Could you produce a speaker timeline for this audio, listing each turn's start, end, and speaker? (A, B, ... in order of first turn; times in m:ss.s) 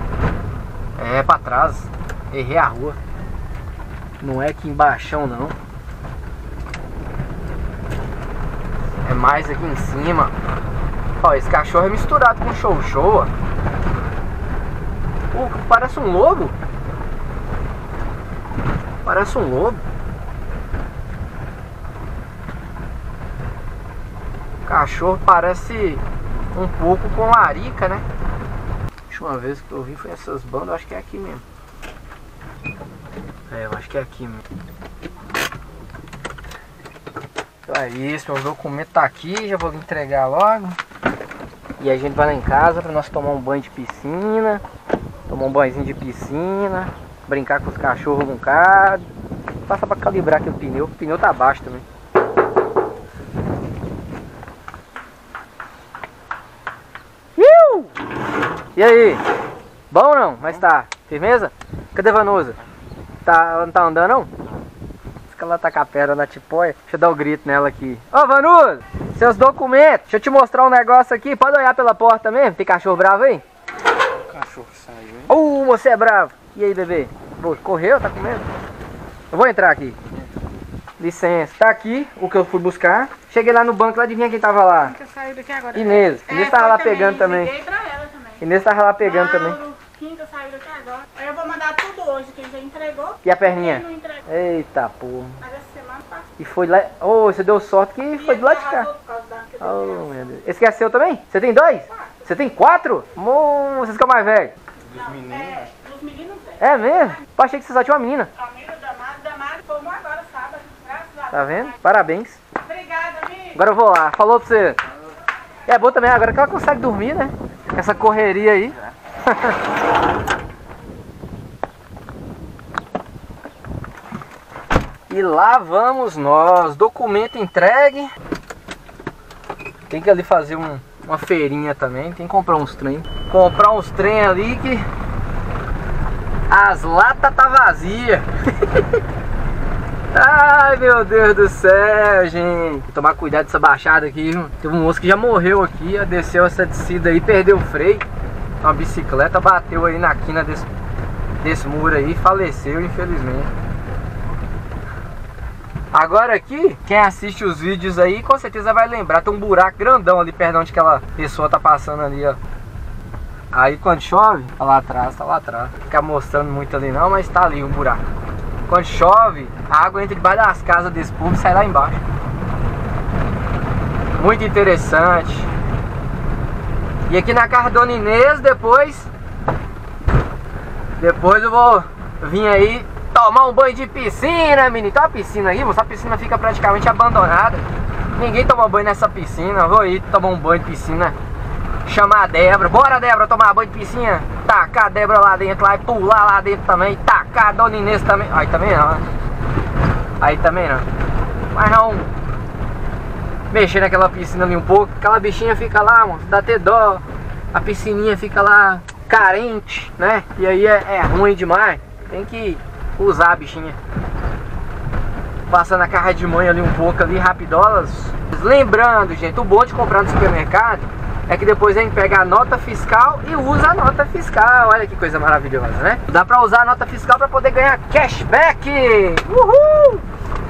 0:01.0-0:03.0 A
0:04.2-0:05.6 A
0:09.0-0:10.3 A
0:11.2-0:13.3 A
0:15.3-0:16.5 A
0:19.0-0:19.8 A
0:24.6-0:28.0 A
0:29.1-0:31.4 A
0:33.5-0:34.4 A
0:37.7-0:40.8 A
0:41.8-0:44.6 A
0:45.3-0:49.1 A
0:49.7-0:51.8 A
0:57.4-0:57.9 A
0:58.7-0:59.2 A
0:59.9-1:02.6 A
1:03.2-1:04.3 A
1:05.3-1:13.4 A
1:14.1-1:15.3 B
1:15.3-1:18.5 A
1:19.3-1:20.0 A
1:21.0-1:25.0 A
1:24.8-1:28.4 C
1:25.7-1:27.5 A
1:28.4-1:29.6 A
1:29.0-1:34.2 C
1:33.2-1:35.4 A
1:35.4-1:36.3 C
1:36.4-1:38.9 A
1:38.2-1:40.3 C
1:39.6-1:44.5 A
1:44.9-1:47.2 C
1:44.9-1:45.6 B
1:46.6-1:48.3 A
1:48.4-1:51.8 C
1:51.3-1:52.4 A
1:52.6-1:53.6 C
1:53.5-1:54.8 A
1:55.7-1:59.6 A
2:05.1-2:08.1 A
2:09.9-2:14.8 A
2:16.5-2:19.0 A
2:20.1-2:28.0 A
2:28.6-2:30.7 A
2:31.4-2:33.5 A
2:35.9-2:42.4 A
2:43.5-2:48.0 A
2:48.7-2:52.0 A
2:54.1-2:55.5 A
2:57.1-2:59.1 A
3:01.0-3:11.2 A
3:11.8-3:19.0 A
3:20.2-3:20.9 A
3:21.5-3:22.1 A
3:23.5-3:33.8 A
3:35.5-3:50.0 A